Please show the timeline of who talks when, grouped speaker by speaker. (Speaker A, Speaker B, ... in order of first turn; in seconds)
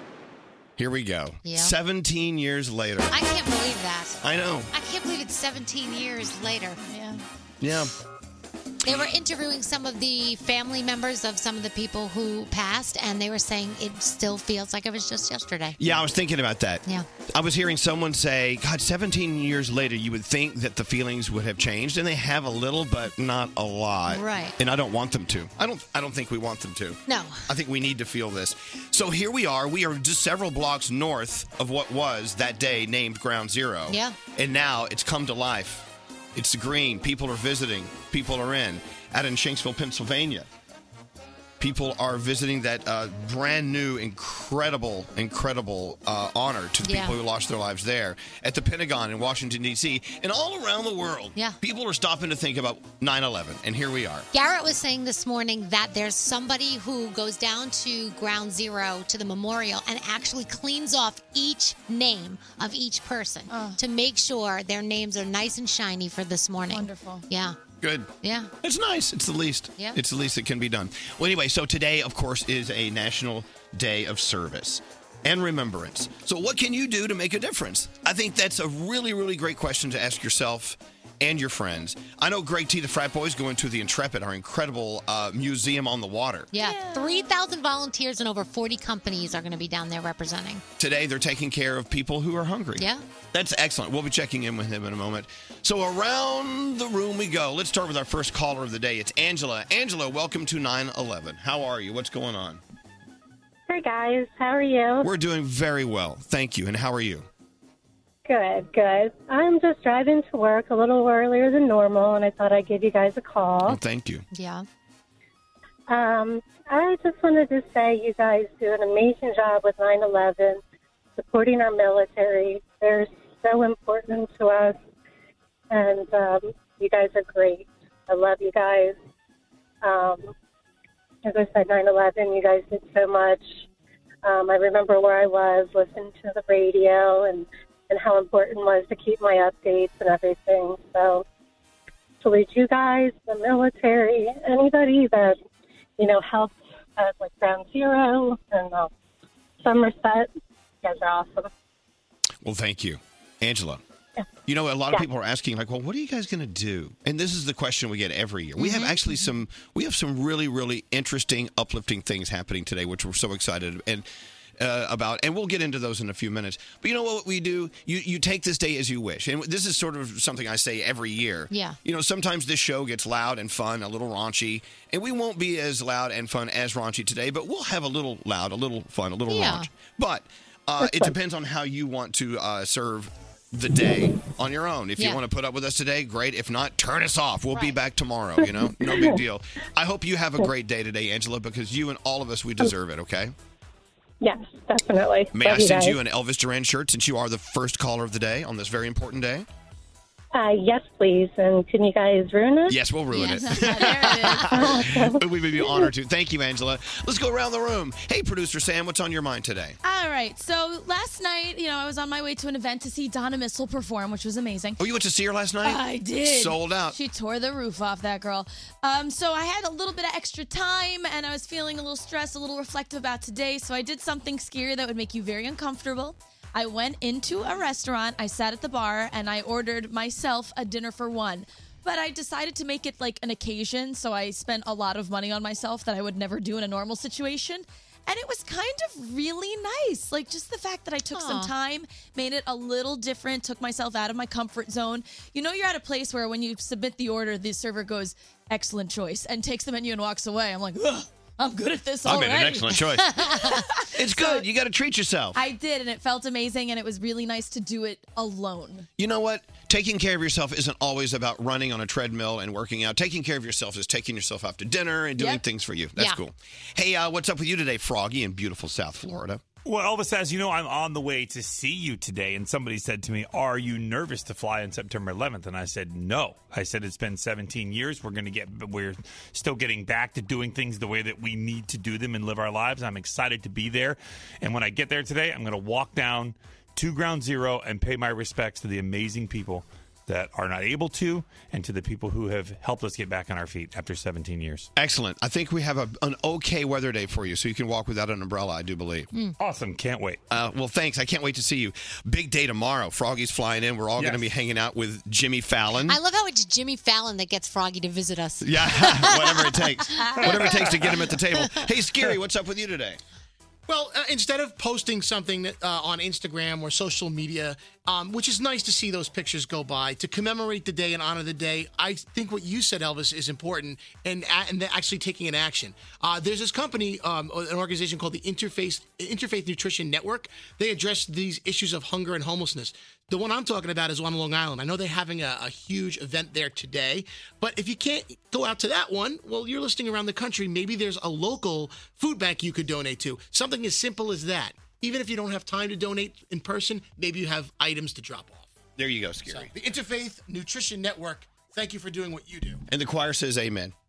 Speaker A: 0.8-3.1, 4.2-4.7, 7.6-7.9, 15.8-40.5, 41.6-54.3, 67.8-68.1, 68.6-86.5, 90.8-102.6, 105.0-107.3, 113.7-114.3, 152.4-153.8, 154.5-164.1, 164.6-193.3, 195.3-199.5, 202.7-209.8, 214.8-216.9, 252.1-253.2, 253.9-255.4, 259.0-269.4, 294.8-299.1, 300.3-306.0, 308.4-313.0, 348.8-349.5, 352.7-353.7
Speaker B: 1.4-1.7, 3.1-6.8, 8.8-15.8, 24.1-24.5, 27.1-27.5, 33.9-34.2, 46.8-47.1, 54.3-67.6, 68.2-68.5, 86.5-90.6, 92.8-93.0, 114.3-114.7, 158.6-158.9, 171.5-171.8, 179.3-179.7, 241.1-241.5, 253.1-253.6, 305.9-311.7
Speaker C: 6.8-7.2, 63.5-63.8, 66.7-67.2, 86.6-87.3, 203.1-204.7, 209.8-214.8, 215.6-254.4, 255.3-258.9, 265.2-265.4, 310.0-310.4
Speaker D: 103.7-105.0, 108.3-113.8, 115.9-120.6, 121.2-124.8, 125.7-129.0, 129.8-130.3, 131.2-133.6, 134.2-141.2, 142.2-145.4, 146.0-148.9, 149.6-150.3, 150.8-151.5, 180.8-181.1, 188.4-189.2, 194.2-195.9, 200.3-202.8, 204.7-205.8
Speaker E: 269.6-294.7, 299.4-300.2
Speaker F: 313.7-348.5, 349.3-352.6